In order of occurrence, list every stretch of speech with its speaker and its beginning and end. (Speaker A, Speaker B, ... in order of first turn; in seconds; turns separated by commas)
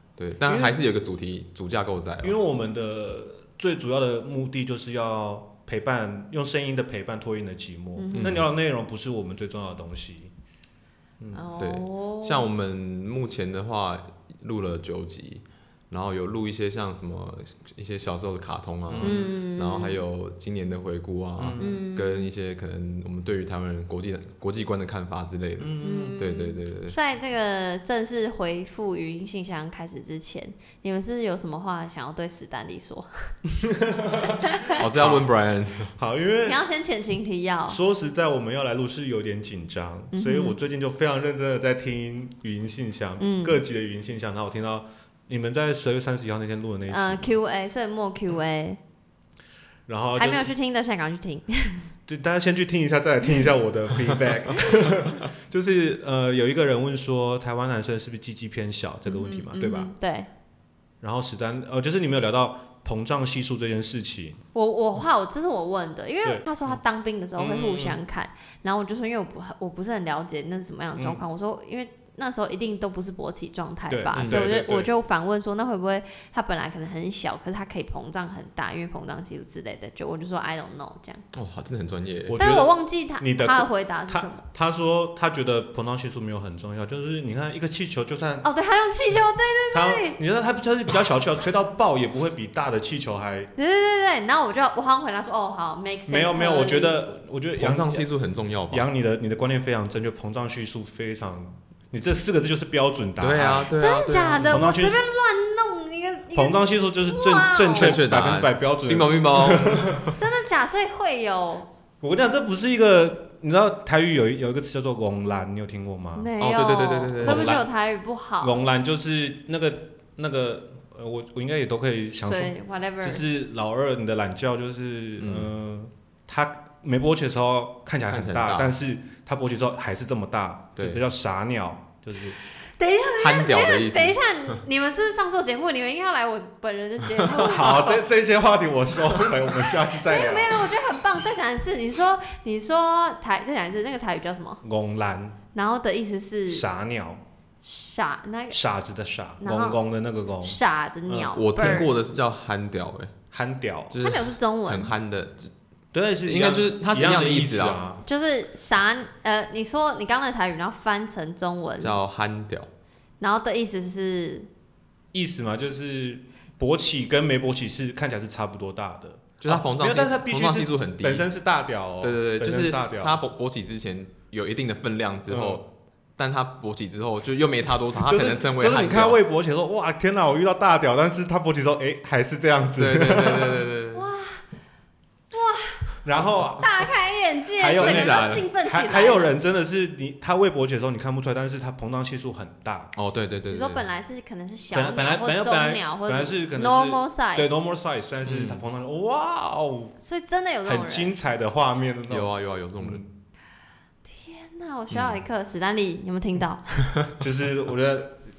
Speaker A: 0.2-2.4, Speaker B: 0.5-0.8, Speaker B: 2.2-10.3, Speaker C: 8.0-8.4, Speaker A: 8.1-8.5, Speaker C: 11.3-12.5, Speaker A: 11.6-27.0, Speaker B: 18.9-19.3, Speaker C: 19.0-20.0, Speaker B: 21.4-21.7, Speaker C: 21.6-22.3, Speaker B: 25.6-26.1, Speaker C: 25.8-33.3, Speaker B: 33.5-35.2, Speaker C: 34.3-34.8, Speaker A: 34.8-35.9, Speaker B: 36.0-36.6, Speaker C: 36.5-37.8, Speaker B: 37.7-47.3, Speaker C: 40.1-40.5, Speaker C: 43.2-43.6, Speaker C: 46.9-48.8, Speaker B: 49.9-50.5, Speaker C: 50.1-51.9, Speaker B: 52.1-59.9, Speaker C: 59.0-60.3, Speaker B: 61.0-64.4, Speaker C: 64.5-81.2, Speaker B: 66.2-66.8, Speaker B: 67.3-68.0, Speaker B: 73.9-74.9, Speaker A: 74.2-74.4, Speaker A: 81.3-82.4, Speaker B: 82.3-88.5, Speaker C: 82.4-84.4, Speaker C: 88.4-90.2, Speaker B: 89.7-93.5, Speaker C: 93.5-97.0, Speaker B: 96.1-98.1, Speaker A: 97.6-98.9, Speaker B: 98.7-103.7, Speaker A: 103.2-104.6, Speaker C: 103.7-108.0, Speaker B: 104.4-105.0, Speaker B: 106.3-110.1, Speaker A: 107.7-110.1, Speaker C: 110.2-111.7, Speaker B: 112.0-116.3, Speaker C: 116.2-118.5, Speaker A: 116.4-117.5, Speaker B: 117.2-117.7, Speaker B: 118.4-132.4, Speaker C: 122.2-123.2, Speaker A: 125.2-125.5, Speaker A: 128.1-128.7, Speaker A: 130.8-131.0, Speaker C: 132.6-138.0, Speaker A: 133.2-134.2, Speaker B: 137.3-140.6, Speaker C: 140.0-144.6, Speaker B: 144.6-145.4, Speaker C: 145.5-146.6, Speaker B: 146.5-147.2, Speaker C: 147.6-148.6, Speaker B: 148.5-151.8, Speaker C: 149.4-149.8, Speaker C: 150.4-151.9, Speaker A: 151.3-153.1, Speaker B: 153.3-153.9, Speaker A: 153.9-155.5, Speaker C: 154.0-154.9, Speaker B: 155.9-158.0, Speaker A: 156.2-157.8, Speaker C: 158.0-162.0, Speaker A: 161.8-162.7, Speaker C: 163.2-164.5, Speaker B: 165.1-173.2, Speaker A: 169.4-171.3, Speaker A: 172.0-179.2, Speaker B: 175.3-175.6, Speaker B: 177.9-183.7, Speaker A: 182.8-184.0, Speaker C: 183.9-184.4, Speaker C: 185.3-185.9, Speaker B: 186.0-186.7, Speaker C: 186.6-189.3, Speaker B: 187.6-192.9, Speaker A: 187.8-188.5, Speaker A: 192.9-193.8, Speaker C: 193.5-197.6, Speaker B: 194.7-199.9, Speaker A: 198.2-198.6, Speaker C: 200.0-201.1, Speaker B: 200.7-203.1, Speaker A: 202.1-203.1, Speaker C: 204.0-206.7, Speaker A: 204.9-205.2, Speaker B: 207.2-208.2